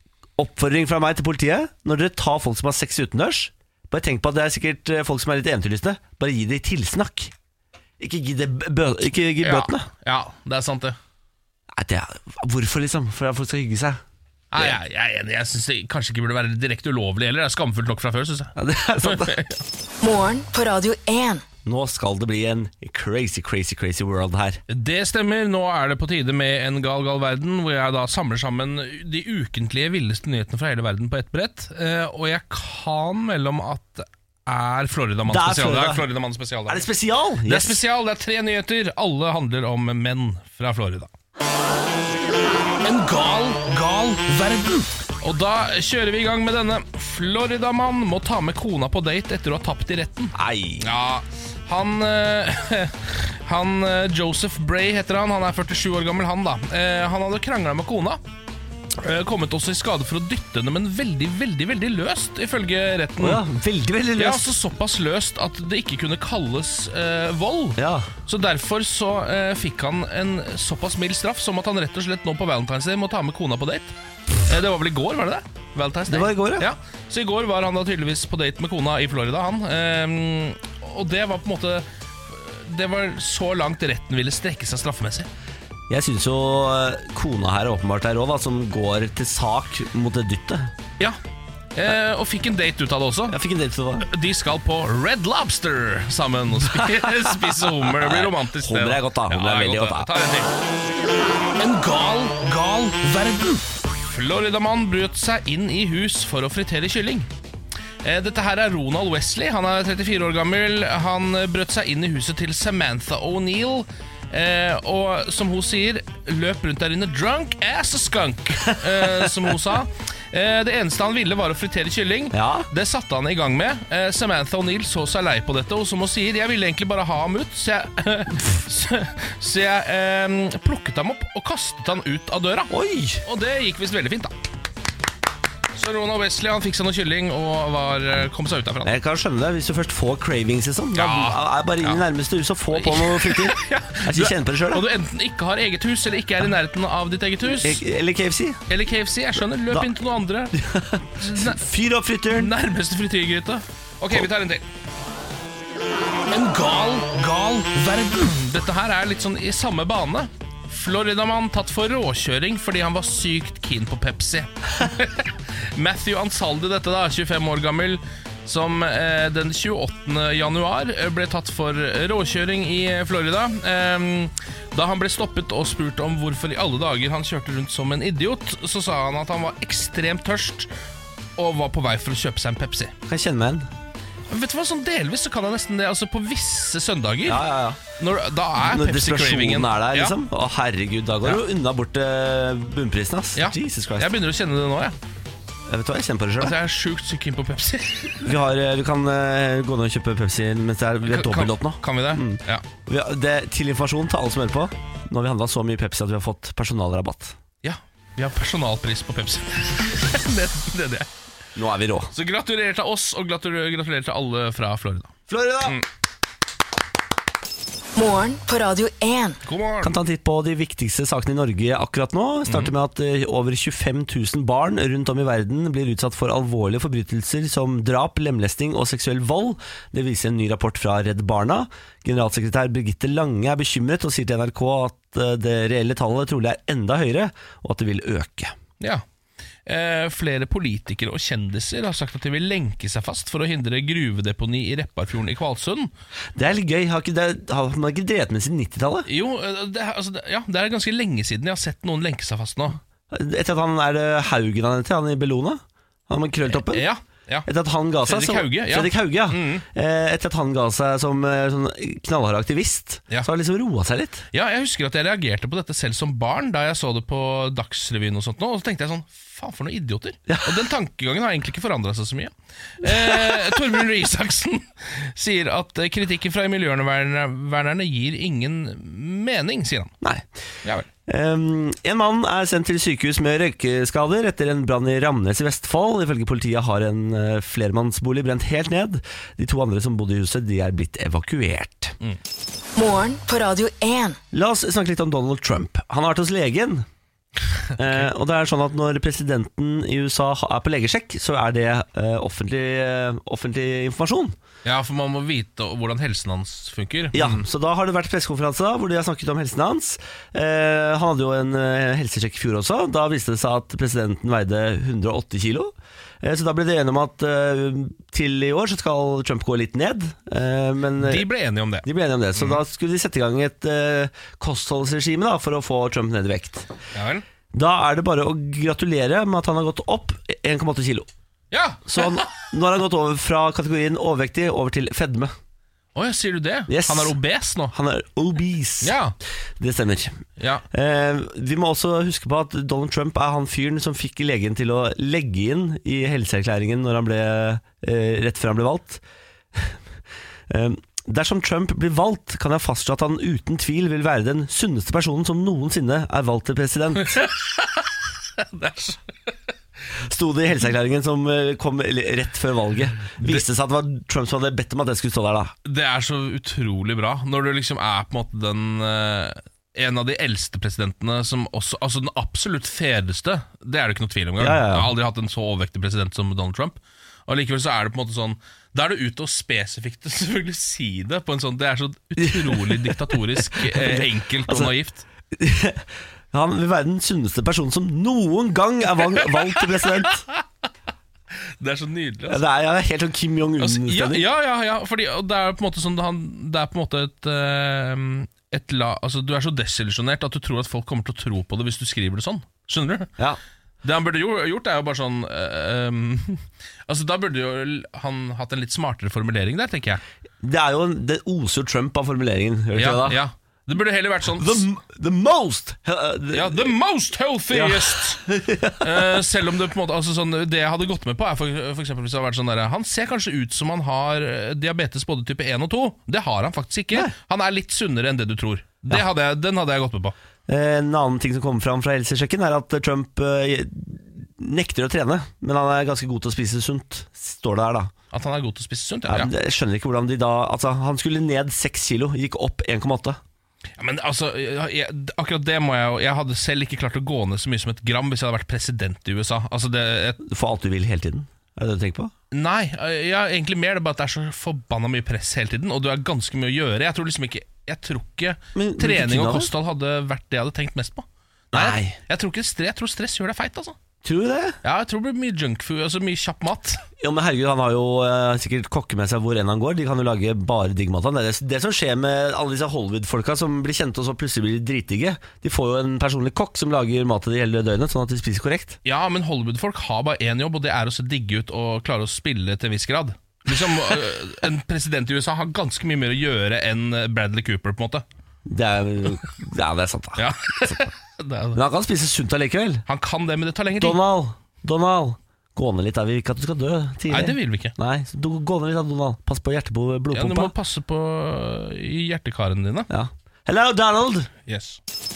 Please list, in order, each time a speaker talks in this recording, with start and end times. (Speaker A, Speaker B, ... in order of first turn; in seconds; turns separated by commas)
Speaker A: 0.4-7.3, Speaker A: 8.0-9.9, Speaker B: 9.4-11.0, Speaker A: 11.7-14.0, Speaker B: 14.5-19.6, Speaker A: 18.6-19.4, Speaker C: 20.0-21.4, Speaker A: 21.6-24.6, Speaker B: 24.7-36.9, Speaker A: 35.3-36.0, Speaker A: 36.7-37.8, Speaker B: 37.5-41.1, Speaker B: 42.8-58.2, Speaker A: 50.4-50.9, Speaker B: 59.0-63.4, Speaker A: 63.2-64.5, Speaker B: 64.2-73.9, Speaker A: 67.8-68.1, Speaker B: 74.5-85.3, Speaker A: 76.1-76.7, Speaker A: 85.9-90.7, Speaker B: 91.8-93.4, Speaker A: 93.3-94.1, Speaker B: 94.0-100.5, Speaker A: 96.7-100.1, Speaker B: 101.6-107.3, Speaker B: 108.0-132.7, Speaker A: 122.3-122.7, Speaker A: 132.7-133.2, Speaker B: 133.2-134.3, Speaker B: 135.7-138.9, Speaker A: 138.8-144.8, Speaker B: 140.9-142.0, Speaker B: 142.7-147.8, Speaker A: 147.6-148.6, Speaker B: 148.7-150.6, Speaker A: 150.5-152.5, Speaker B: 151.2-151.6, Speaker B: 152.3-154.6, Speaker B: 156.3-180.7, Speaker B: 181.4-182.9, Speaker A: 183.1-183.7, Speaker B: 184.3-187.4, Speaker A: 187.3-187.8, Speaker B: 188.0-190.2, Speaker A: 188.6-194.1, Speaker B: 193.4-195.0, Speaker A: 195.7-196.6, Speaker B: 196.4-198.3, Speaker A: 198.2-207.4, Speaker B: 201.1-202.7, Speaker B: 207.6-211.1, Speaker A: 211.6-212.1, Speaker B: 212.1-215.1, Speaker A: 215.3-215.8, Speaker C: 218.0-219.4, Speaker B: 219.4-219.9, Speaker A: 219.8-238.6, Speaker B: 222.5-222.7, Speaker B: 239.7-245.9, Speaker A: 246.3-249.1, Speaker B: 249.1-252.8, Speaker A: 253.1-256.9, Speaker B: 256.5-257.5, Speaker A: 257.5-264.2, Speaker B: 258.1-259.6, Speaker B: 264.3-279.9, Speaker A: 270.3-270.6, Speaker A: 272.8-273.6, Speaker A: 280.0-280.3, Speaker A: 281.1-292.0, Speaker C: 292.8-294.2, Speaker A: 294.3-296.9, Speaker A: 297.8-304.4, Speaker B: 297.8-298.1, Speaker B: 304.6-307.4, Speaker A: 307.1-321.3, Speaker B: 321.0-322.6, Speaker A: 321.8-326.7, Speaker B: 326.9-327.2, Speaker A: 327.5-331.1, Speaker B: 331.5-332.3, Speaker A: 331.9-335.3, Speaker B: 335.9-337.7, Speaker A: 336.7-337.2, Speaker A: 337.7-339.0, Speaker B: 338.8-339.1, Speaker A: 339.6-349.0, Speaker B: 340.4-340.6, Speaker A: 350.5-357.2, Speaker B: 357.1-359.0, Speaker A: 360.0-365.5, Speaker B: 365.6-385.1, Speaker A: 374.4-374.9, Speaker A: 382.2-384.7, Speaker A: 385.3-390.3, Speaker B: 391.5-392.4, Speaker A: 392.3-394.3, Speaker B: 393.6-403.1, Speaker B: 403.8-410.0, Speaker A: 410.4-413.2, Speaker B: 412.8-414.7, Speaker A: 414.4-416.8, Speaker B: 416.3-418.2, Speaker A: 417.5-419.2, Speaker B: 418.8-430.1, Speaker A: 430.5-437.9, Speaker B: 438.1-439.3, Speaker A: 439.1-443.2, Speaker B: 443.8-450.2, Speaker A: 450.2-452.1, Speaker B: 452.3-463.8, Speaker A: 458.6-459.5, Speaker A: 461.5-462.0, Speaker A: 464.0-464.6, Speaker B: 464.6-466.8, Speaker A: 467.0-478.8, Speaker B: 478.9-488.0, Speaker A: 488.5-490.8, Speaker B: 490.2-491.6, Speaker A: 491.5-492.9, Speaker B: 492.9-494.0, Speaker A: 493.8-500.5, Speaker B: 497.1-497.7, Speaker B: 500.1-502.9, Speaker A: 502.9-504.3, Speaker B: 504.5-504.8